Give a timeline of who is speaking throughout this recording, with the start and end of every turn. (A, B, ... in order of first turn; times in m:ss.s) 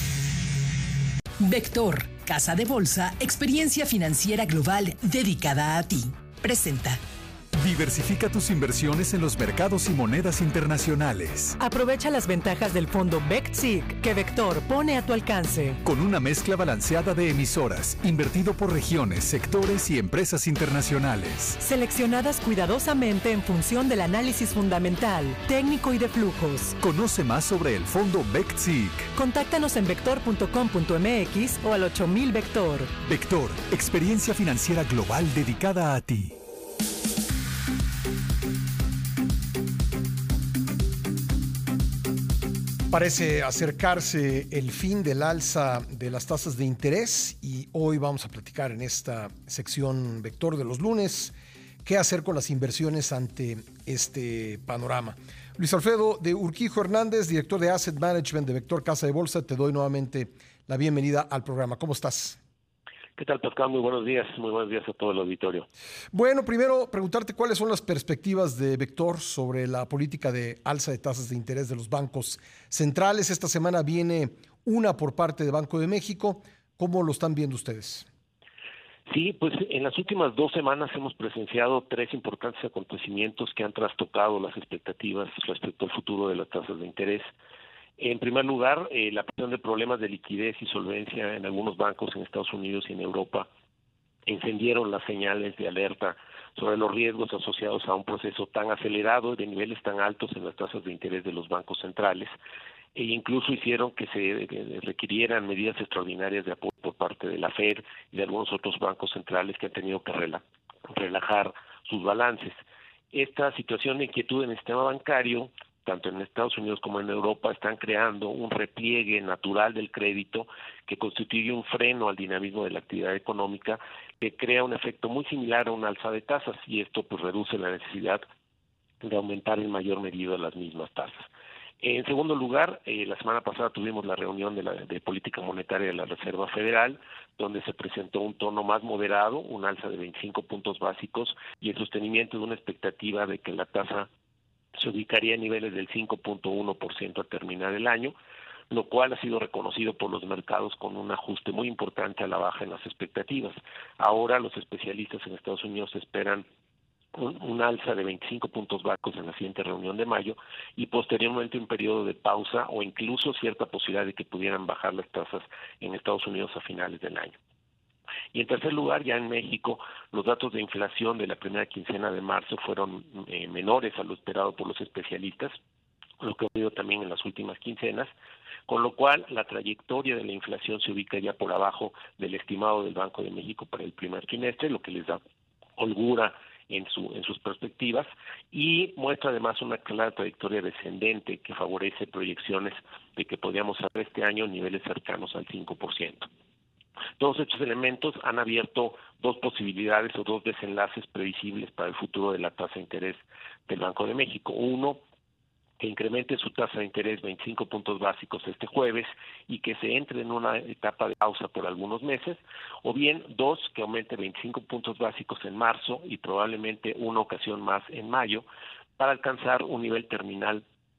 0:01.4-0:07.0 A
0:07.5-0:11.5 B
0:11.6-0:15.8 C
0:15.8-0:21.6 B
0:21.6-0:26.8 C
0:26.8-0:29.1 B
0:29.1-0:32.9 C
0:33.0-0:36.3 B
0:42.9-1:02.4 D
1:03.2-1:05.7 E
1:06.1-1:18.0 D
1:19.1-1:27.3 E
1:28.0-1:33.5 E
1:34.2-1:42.3 E
1:42.9-1:52.6 E
1:53.1-2:08.2 E
2:09.0-2:11.2 E
2:11.8-2:24.1 E
2:24.8-2:28.1 E
2:28.7-2:36.4 E
2:37.1-2:47.4 E
2:48.3-2:55.6 E
2:56.2-2:58.1 E
2:58.7-3:05.2 E
3:05.8-3:16.3 E
3:17.2-3:25.0 E
3:25.8-3:38.4 E
3:39.0-3:40.6 E